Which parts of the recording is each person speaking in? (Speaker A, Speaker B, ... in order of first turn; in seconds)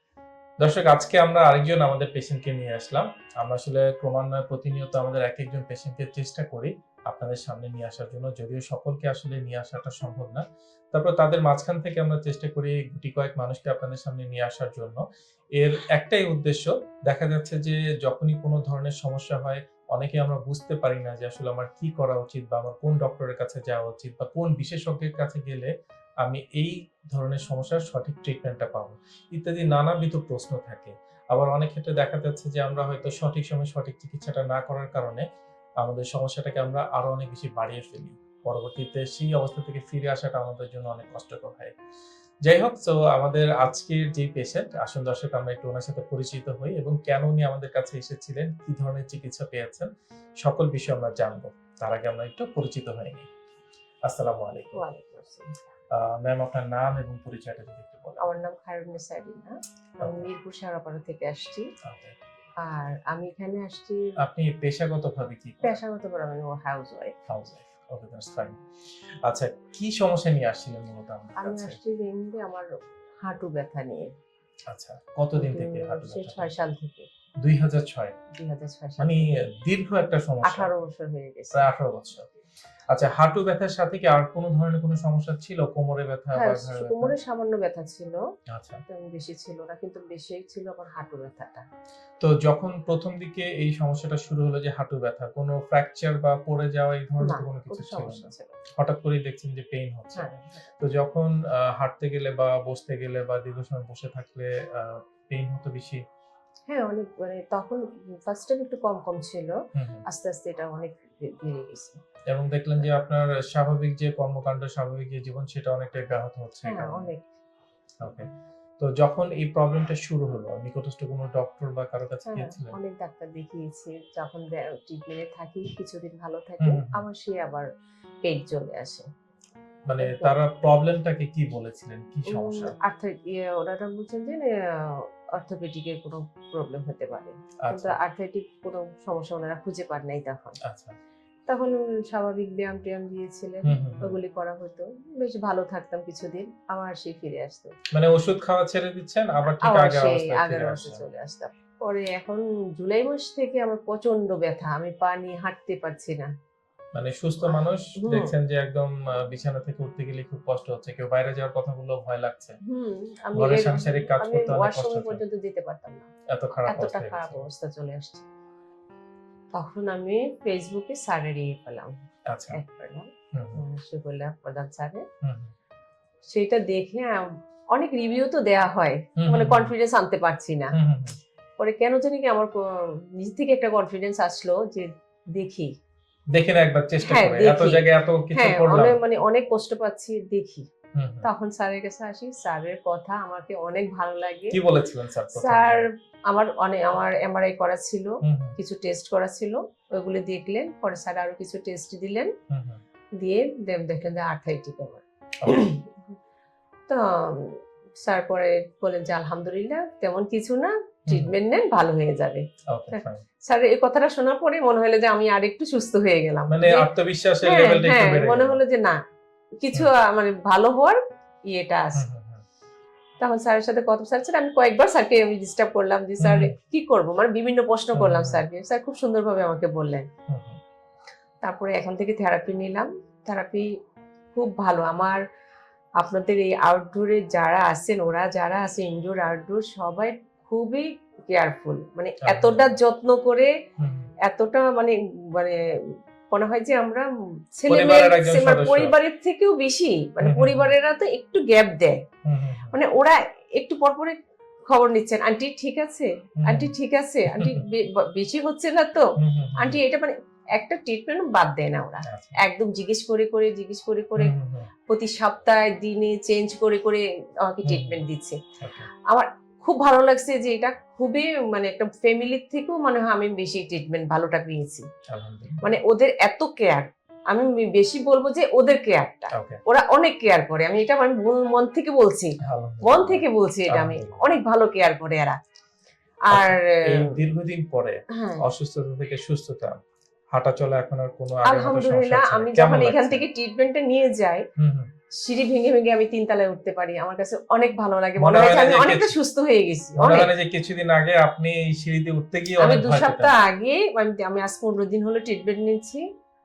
Speaker A: 0.6-15.0, 15.6-25.7, 26.2-35.3, 35.8-41.7, 42.5-53.3, 54.0-54.8, 55.9-58.2, 60.0-60.3, 61.8-62.1, 64.2-65.8, 67.3-68.5, 69.2-71.8, 74.7-76.5, 77.4-78.1, 79.0-80.7, 81.5-82.2, 82.9-87.2, 88.5-88.8, 92.2-106.0, 109.7-110.0, 112.3-117.1, 118.0-118.3, 118.8-122.8, 126.6-127.0, 129.8-132.7, 137.6-138.0, 140.6-140.9, 143.6-144.2, 147.9-151.0, 156.9-162.6, 163.3-165.2, 166.3-167.4, 172.3-172.6, 173.3-173.6, 175.2-175.5, 179.2-179.7, 180.7-181.2, 186.3-189.0, 190.9-191.3, 194.5-195.9, 198.2-198.6, 202.5-202.8, 205.4-205.7, 211.1-211.4, 212.7-213.2, 216.5-218.6, 221.9-222.4, 226.2-226.5, 227.9-228.4, 230.3-230.6, 242.2-242.8, 243.8-244.1, 247.7-248.9, 250.2-250.7, 252.2-252.8, 256.4-256.7, 257.3-257.6, 259.2-259.8, 262.1-262.4, 264.1-264.7, 267.6-268.0, 268.6-268.9, 275.1-275.7, 279.3-279.6, 282.4-284.3, 286.3-289.8, 290.3-293.2, 294.6-294.9, 298.2-299.1, 300.0-303.4
Speaker B: 54.8-55.5, 58.2-61.7, 62.6-64.2, 65.6-67.1, 71.4-72.7, 73.2-74.1, 75.3-77.1, 78.3-79.2, 80.4-81.7, 86.3-88.2, 88.9-91.7, 97.2-98.5, 100.1-100.6, 106.7-112.0, 116.6-117.2, 122.3-127.7, 128.2-129.0, 130.0-130.3, 132.3-140.6, 141.5-147.7, 149.5-156.3, 157.5-158.3, 162.6-166.1, 166.6-168.2, 169.5-171.9, 172.5-175.1, 176.3-180.7, 181.6-185.7, 187.0-190.7, 191.2-194.6, 195.3-202.3, 203.2-206.0, 206.9-216.9, 217.4-219.0, 219.6-222.0, 223.2-230.1, 231.4-233.7, 234.3-235.2, 236.0-243.5, 244.2-245.6, 246.3-252.0, 252.7-264.3, 264.9-268.4, 269.1-274.9, 275.6-285.4, 286.3-287.1, 288.1-288.4, 291.4-294.4, 295.2-300.3, 302.6-306.0